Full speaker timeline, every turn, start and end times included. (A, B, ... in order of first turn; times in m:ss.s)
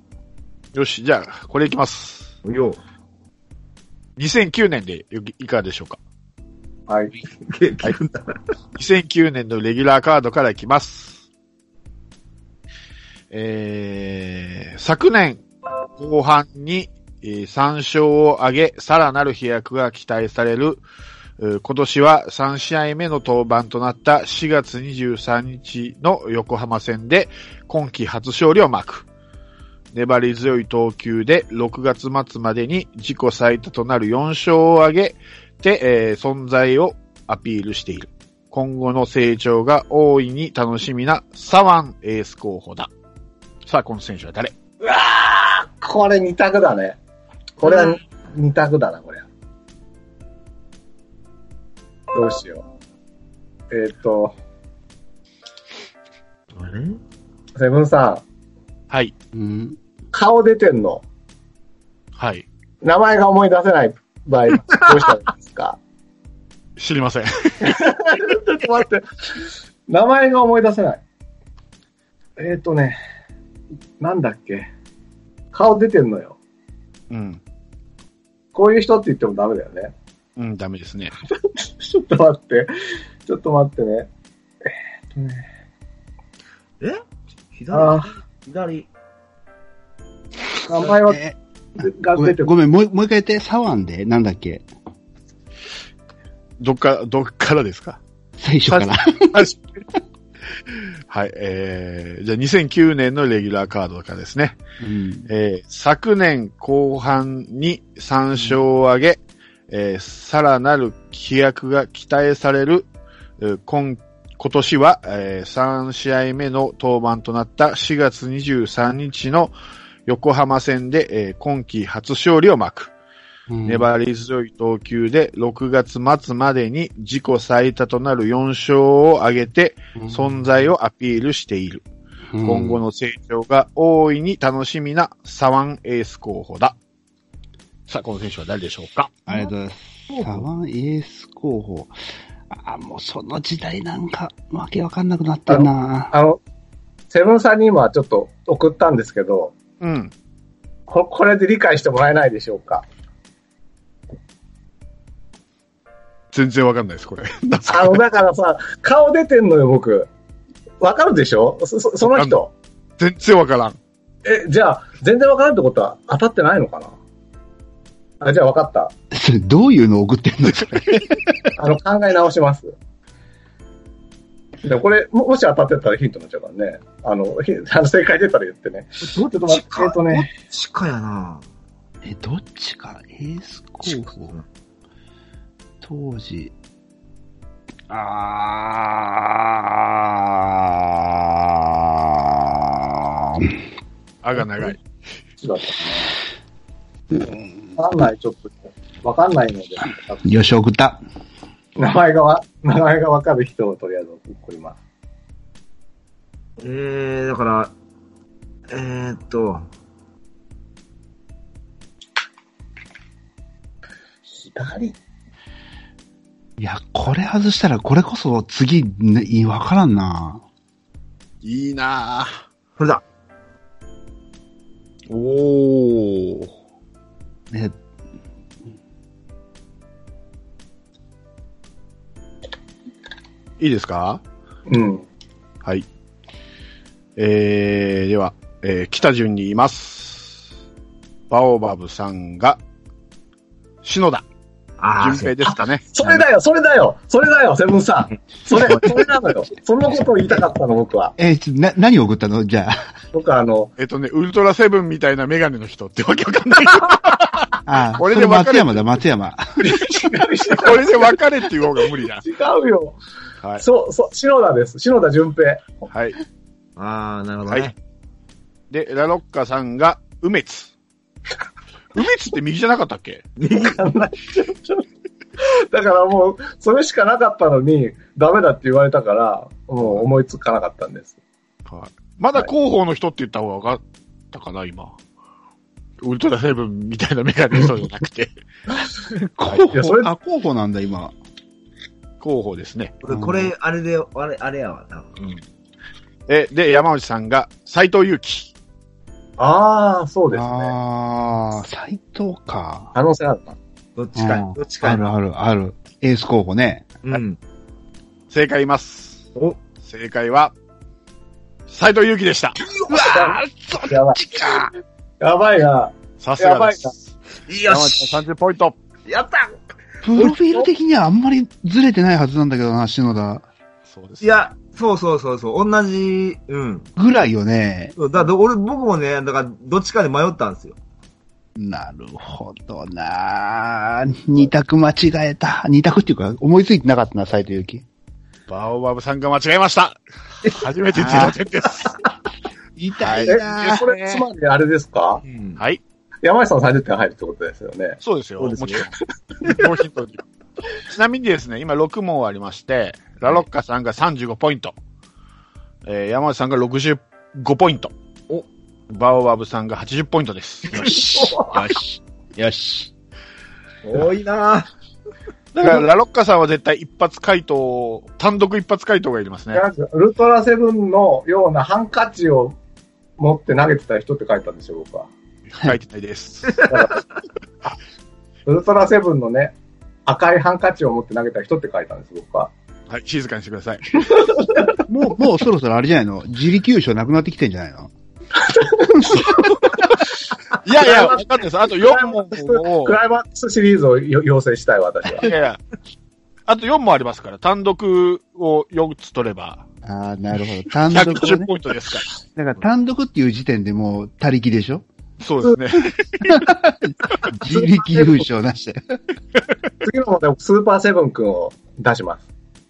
0:00.7-0:02.3 A
0:02.4-0:02.8 B
0:04.2-0:06.0 A
0:06.9-0:07.1 C
0:07.4-0:08.4 B
0:08.8-0:11.2 A
0:13.3-0:15.4 A
0:16.0-0:20.8 A
0:21.4-0:29.0 A
0:29.9-0:42.9 A
0:43.6-0:44.5 A
0:44.8-0:47.0 C
0:47.6-0:49.3 C
0:52.1-0:52.6 C
0:53.7-0:54.3 C
0:56.5-0:57.0 B
0:57.6-0:58.2 C
0:59.3-0:59.8 D
1:00.1-1:01.0 C
1:02.2-1:02.4 A
1:02.8-1:05.8 C
1:06.8-1:07.8 A
1:07.6-1:11.0 C
1:12.4-1:13.0 C
1:14.0-1:14.7 C
1:15.5-1:16.4 C
1:17.1-1:17.4 A
1:18.5-1:19.9 C
1:20.4-1:21.1 A
1:21.6-1:22.7 C
1:23.2-1:24.1 C
1:25.1-1:25.4 C
1:27.5-1:28.9 B
1:27.7-1:28.1 C
1:30.6-1:31.2 C
1:31.0-1:31.4 D
1:31.8-1:32.5 C
1:32.1-1:34.6 D
1:36.6-1:38.0 A
1:38.4-1:39.4 D
1:38.7-1:39.6 A
1:41.1-1:44.6 A
1:44.8-1:45.3 D
1:45.3-1:49.2 A
1:49.7-1:52.9 A
1:53.4-1:59.5 A
2:00.1-2:02.9 A
2:03.5-2:03.9 D
2:03.6-2:11.8 A
2:10.0-2:10.4 D
2:12.3-2:12.8 D
2:12.4-2:16.8 A
2:17.9-2:19.1 A
2:19.3-2:21.9 D
2:20.1-2:20.4 B
2:22.5-2:26.1 D
2:25.5-2:26.4 C
2:27.1-2:29.5 C
2:29.8-2:30.1 A
2:30.9-2:32.8 C
2:36.3-2:38.0 A
2:37.7-2:40.1 C
2:40.8-2:42.5 C
2:42.1-2:42.4 A
2:43.0-2:43.8 A
2:44.2-2:46.9 C
2:48.2-2:48.9 C
2:49.1-2:51.4 D
2:51.6-2:52.7 C
2:54.6-3:00.3 C
2:59.0-3:01.5 B
3:02.0-3:04.4 D
3:03.8-3:04.4 B
3:05.8-3:06.5 D
3:07.9-3:13.6 D
3:14.2-3:14.8 A
3:15.4-3:16.1 C
3:17.8-3:20.2 C
3:20.2-3:21.0 D
3:21.8-3:24.8 C
3:26.6-3:27.7 B
3:28.7-3:29.6 B
3:34.3-3:35.0 C
3:36.6-3:40.4 D
3:41.4-3:42.4 A
3:42.8-3:43.0 B
3:45.1-3:46.5 A
3:47.5-3:47.8 D
3:53.6-3:54.2 A
3:54.7-3:55.0 C
3:57.2-4:00.4 A
4:01.3-4:02.6 A
4:03.8-4:04.2 A
4:04.8-4:05.4 B
4:05.0-4:06.1 A
4:05.4-4:11.1 C
4:11.2-4:12.8 D
4:13.1-4:13.7 C
4:13.8-4:18.8 A
4:17.6-4:19.6 D
4:19.6-4:21.1 C
4:20.5-4:22.2 A
4:22.2-4:23.0 C
4:23.6-4:25.8 C
4:25.9-4:26.2 A
4:26.8-4:27.7 B
4:27.5-4:27.7 A
4:28.7-4:30.7 A
4:31.9-4:33.3 A
4:33.4-4:33.8 B
4:33.5-4:34.9 C
4:35.4-4:41.2 C
4:41.6-4:45.0 A
4:46.0-4:48.3 A
4:49.1-4:51.1 D
4:49.7-4:50.1 C
4:52.2-4:52.9 A
4:53.0-4:55.4 B
4:53.1-4:53.5 D
4:56.3-4:58.5 A
4:59.4-5:00.8 C
5:00.3-5:02.9 D
5:02.9-5:03.6 C
5:04.0-5:05.0 B
5:04.2-5:06.9 D
5:07.0-5:07.4 B
5:08.3-5:09.2 A
5:09.8-5:10.5 A
5:11.7-5:12.6 A
5:12.6-5:13.1 B
5:12.9-5:14.7 D
5:12.9-5:16.9 C
5:16.2-5:17.0 A
5:17.5-5:18.2 B
5:17.6-5:18.8 A
5:19.0-5:19.6 B
5:20.0-5:23.4 D
5:20.1-5:20.6 B
5:23.9-5:24.4 A
5:24.2-5:26.9 B
5:27.0-5:28.0 D
5:28.0-5:30.8 B
5:31.6-5:37.8 D
5:38.5-5:41.9 A
5:40.9-5:41.4 D
5:42.8-5:43.8 D
5:43.0-5:44.2 A
5:43.3-5:45.2 C
5:45.3-5:45.6 B
5:45.6-5:45.8 A
5:46.2-5:48.0 C
5:48.0-5:48.9 A
5:48.4-5:48.9 B
5:49.4-5:50.2 A
5:50.8-5:54.7 A
5:55.8-5:57.9 A
5:58.9-6:01.1 A
6:00.7-6:02.9 D
6:01.2-6:01.5 C
6:03.8-6:04.7 B
6:05.5-6:09.6 A
6:09.5-6:12.6 C
6:13.2-6:15.1 C
6:15.5-6:16.7 A
6:16.7-6:17.0 C
6:18.4-6:19.5 C
6:20.0-6:22.5 C
6:22.9-6:24.1 A
6:24.1-6:24.8 C
6:24.9-6:27.9 D
6:28.3-6:29.8 C
6:30.6-6:33.0 A
6:30.8-6:35.3 C
6:35.2-6:35.6 A
6:36.5-6:39.6 A
6:39.8-6:41.5 D
6:40.9-6:42.1 A
6:42.2-6:44.8 D
6:45.2-6:46.4 A
6:46.2-6:49.0 D
6:47.4-6:48.2 C
6:49.8-6:52.2 C